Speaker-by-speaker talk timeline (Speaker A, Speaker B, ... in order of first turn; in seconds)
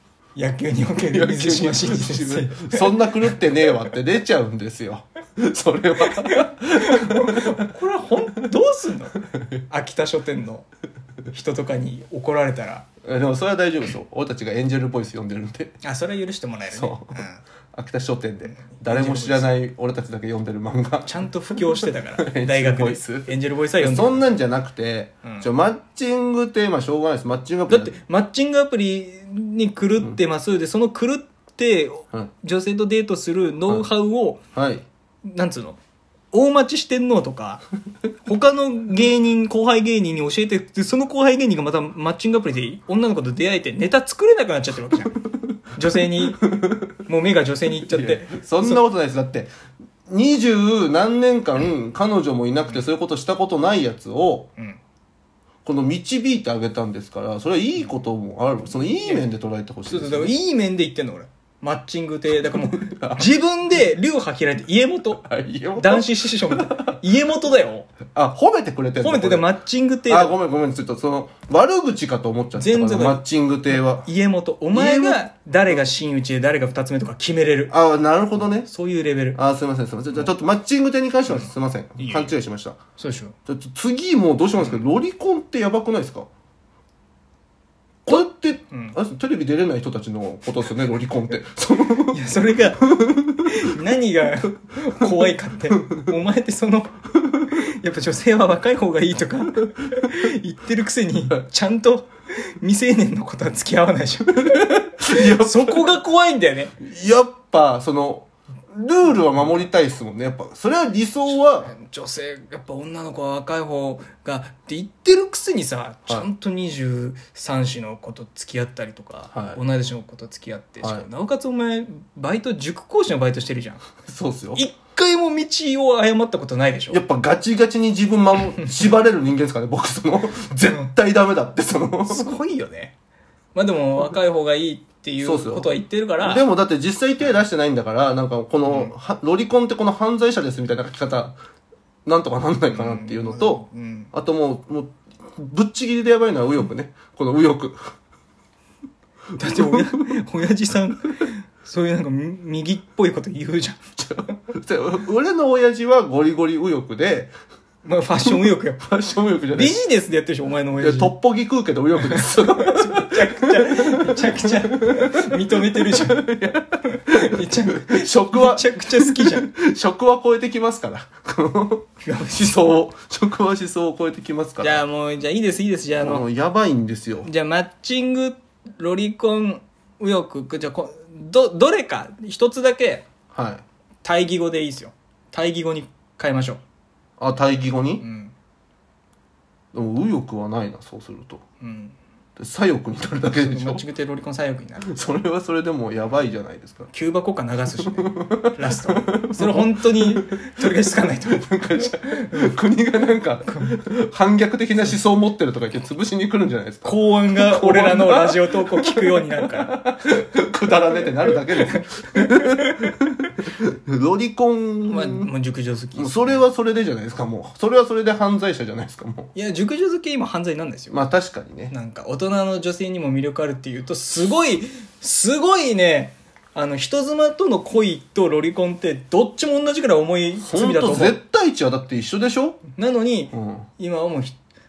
Speaker A: 0.3-3.4, 6.0-9.1, 9.7-10.7, 11.3-12.8, 15.8-17.4, 18.5-19.5, 21.0-24.2, 25.2-25.5, 27.7-34.4, 35.2-35.8, 36.3-37.6, 38.2-45.2, 45.7-48.8, 58.8-59.2, 59.9-67.9, 69.0-70.4, 72.5-77.7, 78.6-79.4, 81.3-82.3, 83.0-83.3, 88.7-89.0, 92.1-106.8, 111.6-123.8, 124.5-127.0, 132.1-132.9, 133.5-136.4, 138.6-138.9, 142.7-144.1, 149.4-153.8, 157.8-158.8, 159.5-161.1, 161.9-166.3, 166.8-169.5, 172.0-172.6, 174.6-176.2, 177.2-183.1, 184.0-186.6, 188.0-188.3, 191.6-191.9, 193.3-194.8, 196.9-201.5, 202.0-202.5, 203.5-203.8, 206.8-209.8, 211.2-212.9, 214.9-216.4, 219.3-221.0, 221.7-231.2, 232.7-234.4
Speaker B: 1.1-7.6, 9.2-9.6, 13.0-15.8, 16.7-27.9, 34.5-34.8, 47.9-49.5, 50.1-54.5, 55.6-60.3, 62.5-63.3, 65.2-66.9, 68.1-69.5, 70.1-74.1, 74.7-75.2, 77.7-78.7, 79.3-82.8, 83.5-86.3, 88.0-92.2, 104.4-105.9, 106.8-111.7, 119.3-119.6, 124.0-124.6, 126.9-132.3, 135.2-141.3, 142.1-147.8, 149.4-149.8, 154.0-157.3, 158.3-159.8, 160.8-174.8, 176.0-177.3, 183.3-183.6, 187.2-188.0, 189.7-191.4, 192.4-193.8, 194.8-196.9, 198.0-215.3, 215.9-219.3, 220.9-221.7, 230.4-232.6, 233.3-233.7